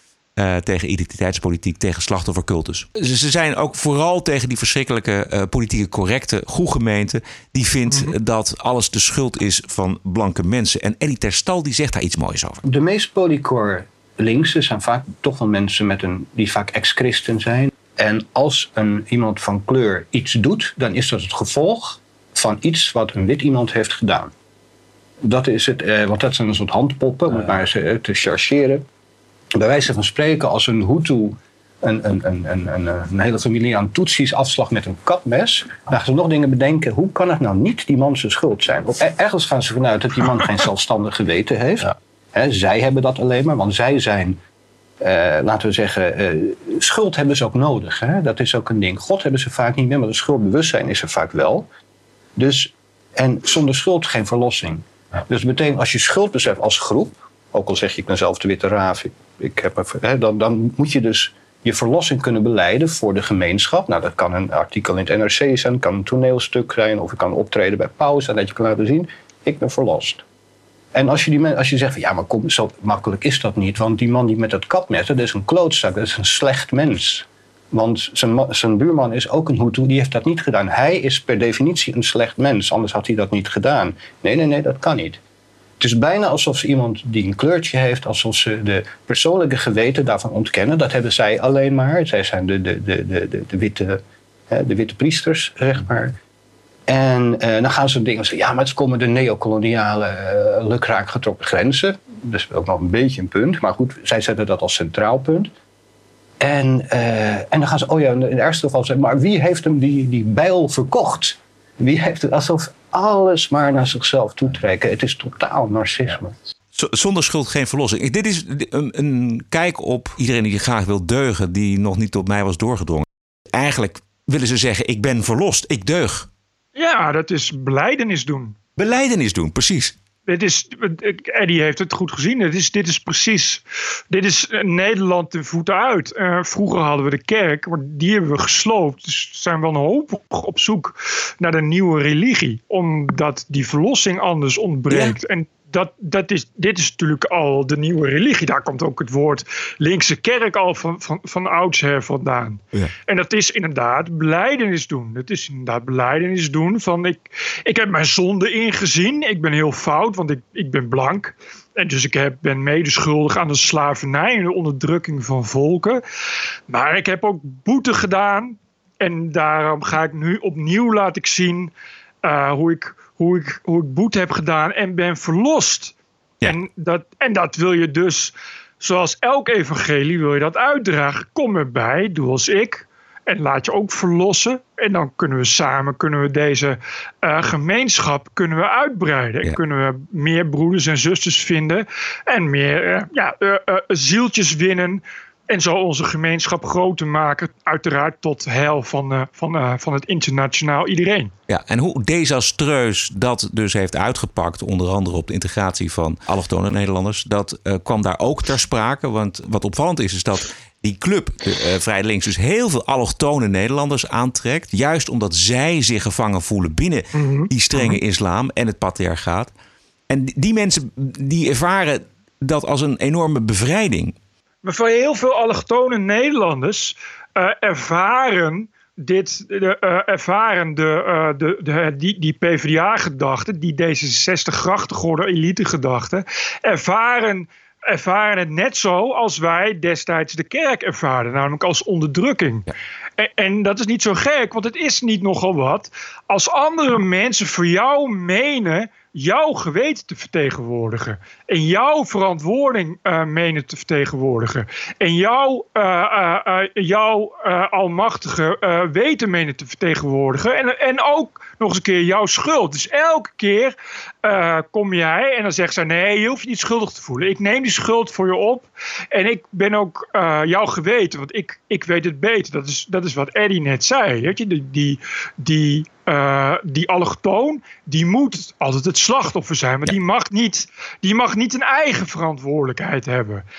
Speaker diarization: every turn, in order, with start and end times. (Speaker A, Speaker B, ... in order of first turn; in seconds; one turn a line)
Speaker A: 0.4-12.6
Speaker B: 12.7-24.3
Speaker B: 25.2-28.8
Speaker B: 29.6-44.4
Speaker B: 45.0-51.7
Speaker B: 52.4-70.2
Speaker B: 70.9-85.2
Speaker B: 85.8-96.2
Speaker B: 96.9-105.5
Speaker B: 106.4-116.4
Speaker A: 116.7-126.3
Speaker C: 126.8-128.6
Speaker A: 128.8-129.9
Speaker C: 130.3-166.0
Speaker A: 144.9-145.2
Speaker C: 166.7-171.7
Speaker C: 172.2-201.3
Speaker A: 201.5-219.5
Speaker C: 217.1-218.0
Speaker A: 220.1-224.2
Speaker C: 224.6-242.7
Speaker C: 243.2-283.4